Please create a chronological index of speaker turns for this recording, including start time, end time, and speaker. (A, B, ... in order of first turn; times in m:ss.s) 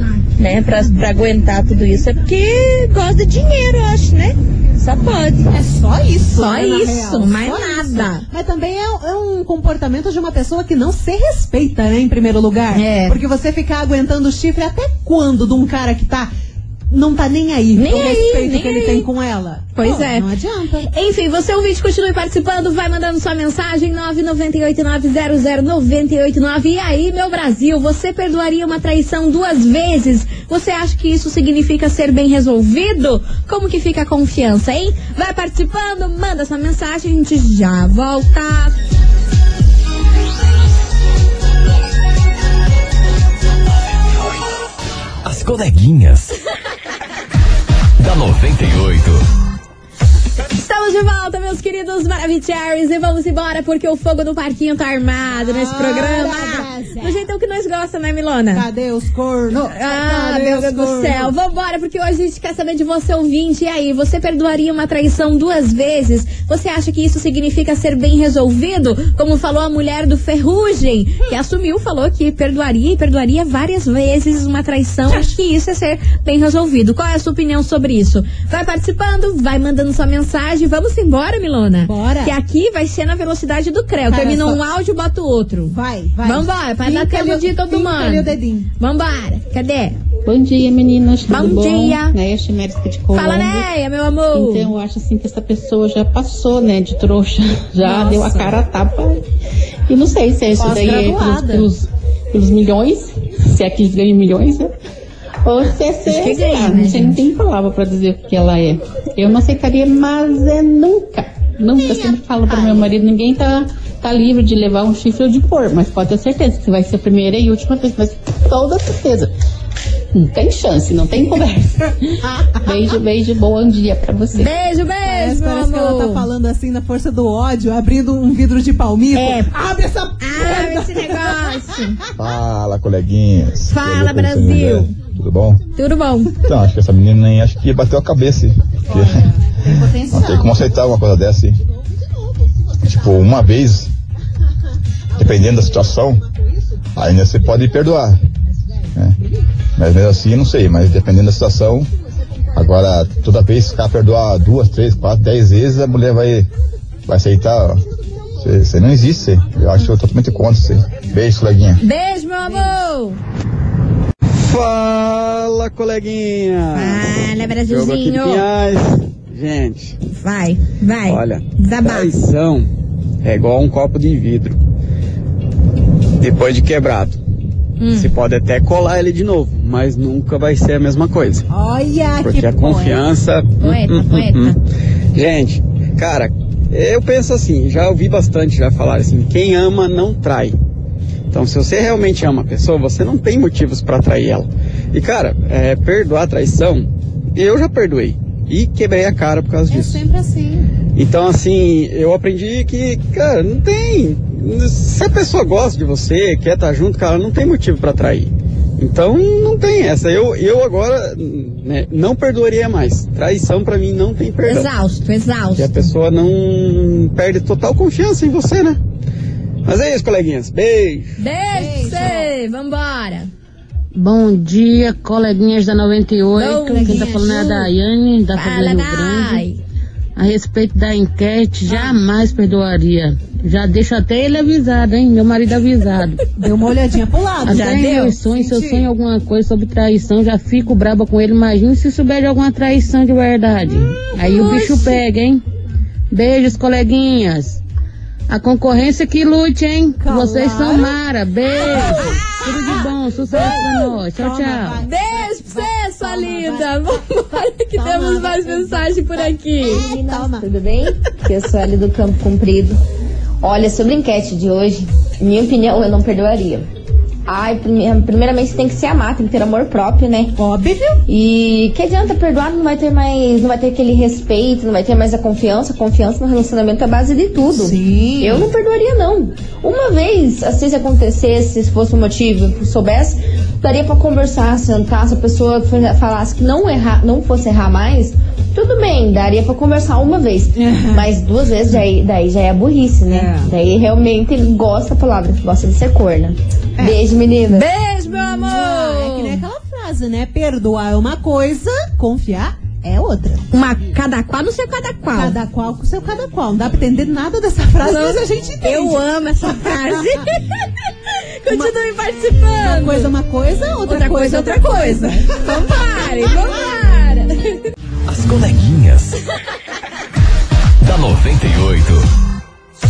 0:00.4-0:05.5 A
0:05.5-0:16.3 B
0:06.4-0:08.2 C
0:12.7-0:13.2 C
0:16.9-0:20.9 B
0:17.8-0:19.1 C
0:19.8-0:20.2 C
0:20.9-0:38.8 C
0:45.2-0:46.4 D
0:48.0-0:49.2 D
0:50.6-0:58.6 C
0:55.3-0:57.3 B
0:58.5-1:01.3 B
0:59.5-1:30.0 C
1:21.9-1:22.4 B
1:24.1-1:24.6 B
1:25.7-1:28.7 B
1:30.2-1:33.7 E
1:31.3-1:32.2 C
1:33.1-1:34.7 C
1:34.3-1:39.2 E
1:37.8-1:38.6 B
1:39.9-1:44.7 E
1:40.5-1:41.7 B
1:45.4-1:59.3 E
1:46.0-1:47.2 C
1:51.8-1:52.9 B
2:00.1-2:02.0 E
2:02.2-2:02.8 B
2:02.6-2:04.5 E
2:04.4-2:06.2 C
2:05.0-2:12.1 B
2:09.2-2:09.5 C
2:10.2-2:12.0 C
2:12.2-2:15.6 F
2:13.7-2:14.9 C
2:15.8-2:16.3 C
2:16.4-2:21.6 F
2:18.9-2:20.6 B
2:22.8-2:23.9 F
2:25.2-2:26.2 F
2:27.0-2:28.2 F
2:29.8-2:31.9 F
2:32.6-2:36.5 F
2:37.1-2:37.8 F
2:38.4-2:41.8 F
2:41.8-2:43.2 C
2:44.3-2:50.0 G
2:46.7-2:48.5 C
2:50.2-2:52.1 C
2:51.1-2:52.7 G
2:53.2-2:54.6 G
2:56.2-2:57.2 G
2:57.8-2:58.1 C
2:57.9-3:01.5 G
3:01.5-3:03.0 B
3:02.2-3:04.6 G
3:05.1-3:10.5 G
3:11.3-3:20.0 G
3:19.7-3:20.7 B
3:20.9-3:34.7 G
3:34.4-3:35.9 C
3:35.6-3:38.8 G
3:39.6-3:41.1 G
3:41.2-3:43.3 C
3:41.5-3:42.3 B
3:43.9-3:49.4 H
3:46.4-3:47.7 C
3:46.7-3:47.4 B
3:48.3-3:49.6 C
3:50.2-3:56.3 H
3:51.7-3:52.0 B
3:56.4-3:58.9 B
3:57.4-4:05.4 H
3:57.5-3:58.2 C
4:04.3-4:05.0 C
4:04.4-4:04.6 B
4:06.1-4:07.6 H
4:08.3-4:14.8 H
4:10.0-4:11.0 B
4:11.6-4:12.4 C
4:11.6-4:20.5 B
4:14.8-4:19.9 C
4:19.7-4:22.8 I
4:23.4-4:26.7 I
4:27.2-4:30.3 I
4:30.4-4:31.0 B
4:31.1-4:57.7 I
4:37.5-4:38.5 B
4:50.6-4:51.1 B
4:53.1-4:53.5 B
4:57.5-4:59.4 C
4:58.1-5:03.5 B
5:03.5-5:05.4 C
5:05.1-5:10.3 B
5:07.8-5:13.1 C
5:11.5-5:11.8 B
5:12.5-5:16.7 B
5:13.9-5:17.6 C
5:18.1-5:19.2 D
5:20.8-5:22.1 D